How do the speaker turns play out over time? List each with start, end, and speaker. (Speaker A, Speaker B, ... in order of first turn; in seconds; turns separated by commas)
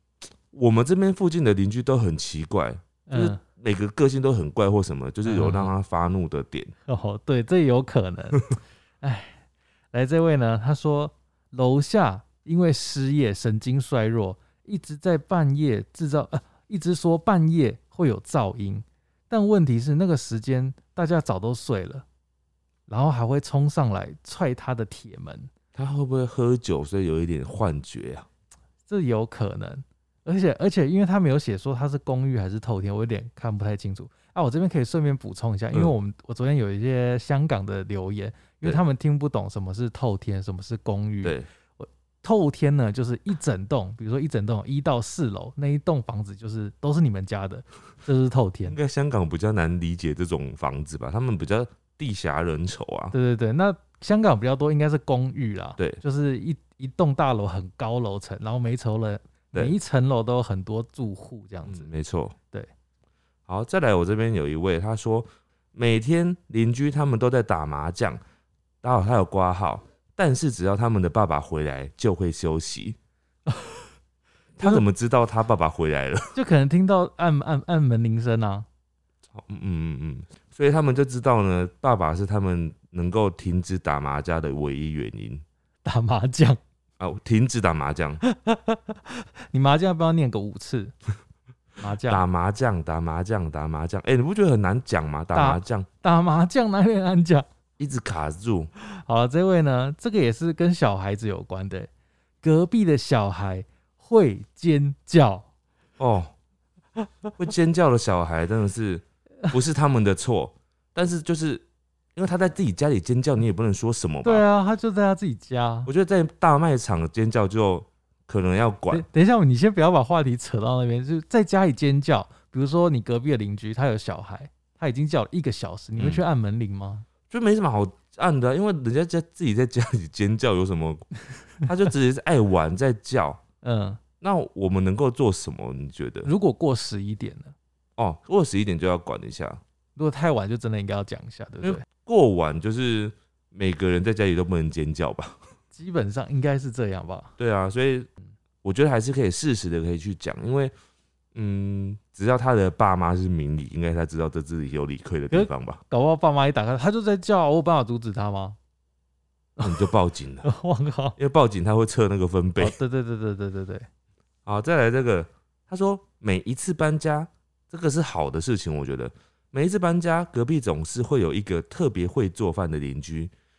Speaker A: 0.5-6.7, Speaker B: 3.1-3.4, Speaker B: 5.2-5.7, Speaker B: 6.9-9.4, Speaker B: 9.9-22.0, Speaker B: 22.9-25.5, Speaker A: 25.7-28.2, Speaker B: 28.9-48.8, Speaker A: 48.7-53.1, Speaker B: 53.1-61.9, Speaker A: 61.7-62.3, Speaker A: 63.5-68.2, Speaker A: 68.8-73.0, Speaker B: 73.5-73.8, Speaker A: 74.6-76.3, Speaker B: 76.3-78.7, Speaker A: 79.3-85.4, Speaker B: 85.8-86.6, Speaker A: 87.0-88.2, Speaker B: 88.2-90.9, Speaker B: 91.8-92.2, Speaker A: 92.1-95.9, Speaker B: 95.3-97.5, Speaker A: 97.8-98.7, Speaker B: 98.8-101.9, Speaker B: 102.4-105.5, Speaker A: 106.0-106.3, Speaker A: 107.4-111.6, Speaker A: 112.2-114.4, Speaker B: 114.2-115.9, Speaker A: 115.8-119.0, Speaker B: 118.9-127.0, Speaker A: 127.3-133.4, Speaker B: 133.6-134.0, Speaker A: 134.2-136.3, Speaker B: 136.2-137.5, Speaker A: 138.0-139.6, Speaker B: 139.9-141.8, Speaker A: 141.6-145.4, Speaker B: 145.7-147.3, Speaker A: 147.4-148.1, Speaker A: 148.6-150.7, Speaker A: 151.3-155.8, Speaker B: 155.3-158.6, Speaker B: 159.6-159.9, Speaker A: 159.6-160.5, Speaker B: 160.4-161.2, Speaker A: 161.2-162.8, Speaker B: 162.6-163.9, Speaker A: 164.4-173.3